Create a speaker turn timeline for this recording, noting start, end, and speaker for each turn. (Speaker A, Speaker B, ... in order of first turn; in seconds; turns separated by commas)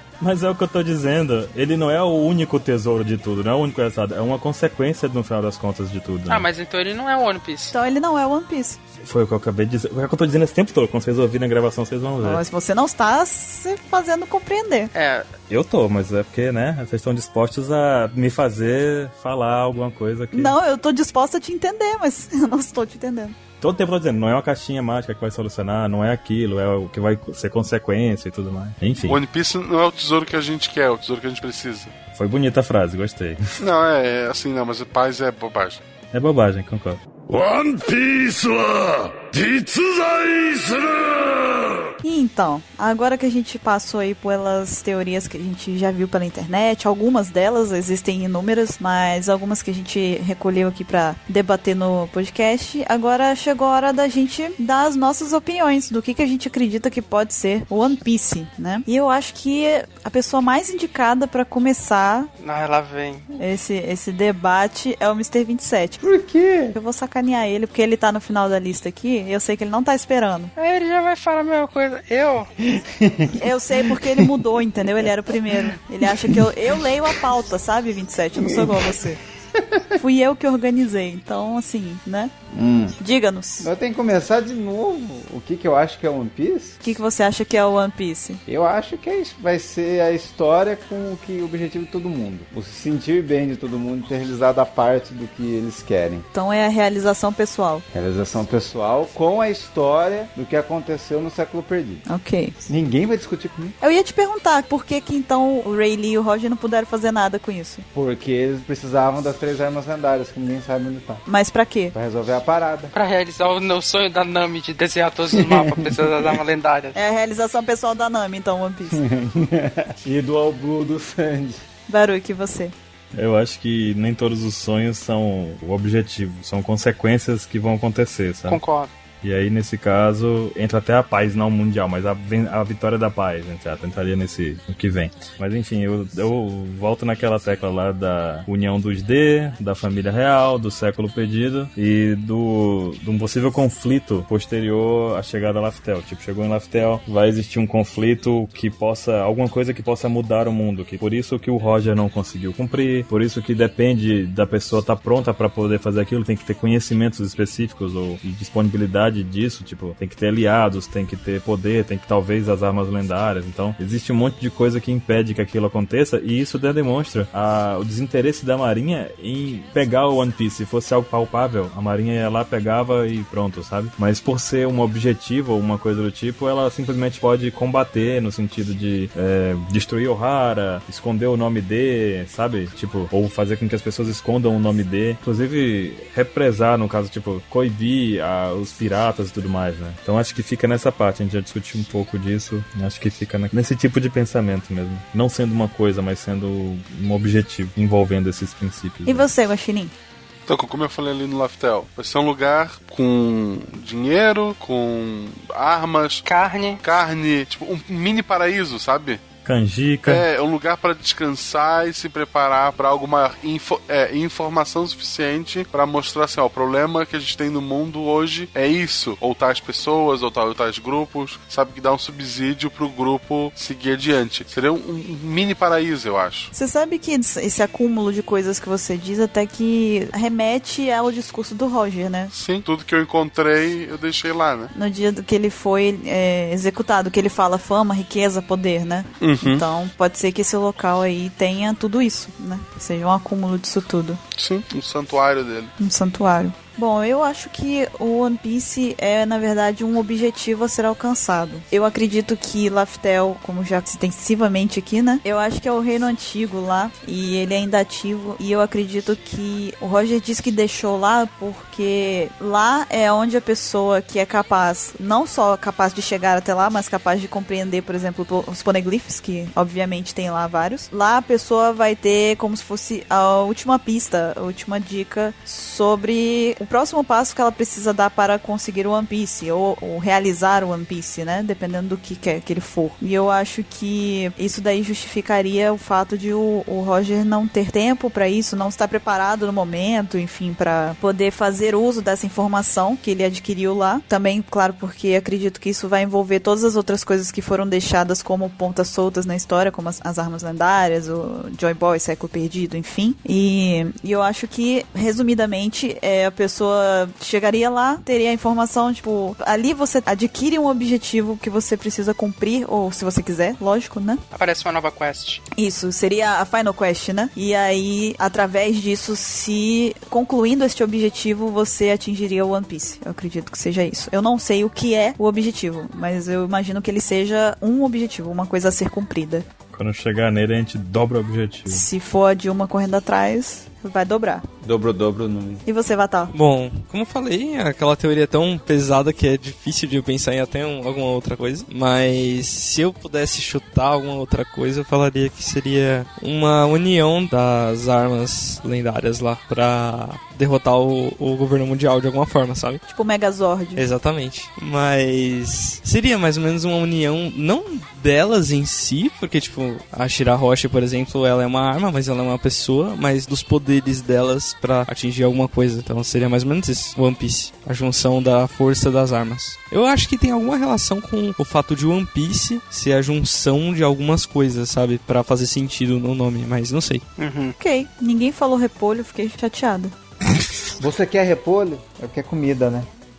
Speaker A: 0.2-6.5, Speaker B: 6.3-7.8, Speaker C: 7.7-8.8, Speaker A: 9.0-12.4, Speaker C: 12.2-14.9, Speaker B: 14.9-15.3, Speaker A: 15.5-20.6, Speaker C: 20.3-23.4, Speaker A: 23.6-29.2, Speaker D: 29.0-31.9, Speaker A: 32.1-33.4, Speaker D: 33.6-35.8, Speaker A: 36.1-37.0, Speaker E: 37.3-41.9, Speaker C: 42.0-62.3, Speaker B: 62.4-63.3, Speaker C: 63.4-66.0, Speaker F: 66.0-66.8, Speaker C: 66.7-70.5, Speaker B: 70.6-72.5, Speaker F: 72.7-74.5, Speaker C: 73.3-79.2, Speaker F: 76.0-76.5, Speaker F: 78.4-79.9, Speaker C: 80.0-82.3, Speaker F: 82.5-83.0, Speaker C: 83.0-83.7, Speaker F: 83.6-86.8, Speaker C: 86.8-88.4, Speaker F: 88.5-96.3, Speaker C: 96.3-97.8, Speaker F: 97.9-102.0, Speaker C: 102.1-102.5, Speaker F: 102.7-103.8, Speaker C: 103.8-107.9, Speaker F: 107.9-111.2, Speaker C: 111.3-112.0, Speaker F: 111.9-112.9, Speaker B: 112.9-117.0, Speaker F: 115.3-116.4, Speaker C: 117.0-119.0, Speaker F: 118.9-121.6, Speaker C: 121.9-122.7, Speaker A: 123.1-128.6, Speaker B: 128.5-128.9, Speaker A: 129.2-199.3, Speaker C: 199.1-199.9, Speaker D: 200.5-206.2, Speaker B: 206.3-206.8, Speaker D: 206.8-209.2, Speaker A: 209.4-210.3, Speaker D: 210.1-226.5, Speaker C: 226.5-232.3, Speaker D: 232.3-234.7, Speaker C: 234.7-244.2, Speaker D: 239.2-239.7, Speaker D: 244.4-245.7, Speaker C: 245.8-314.2, Speaker B: 314.3-315.4, Speaker C: 315.6-329.4, Speaker A: 329.7-331.9, Speaker C: 331.7-334.5, Speaker F: 334.6-335.6, Speaker C: 335.7-336.3, Speaker G: 336.3-352.8, Speaker C: 352.9-353.8, Speaker G: 353.8-377.1, Speaker B: 377.2-377.6, Speaker C: 377.6-379.9, Speaker F: 380.8-382.9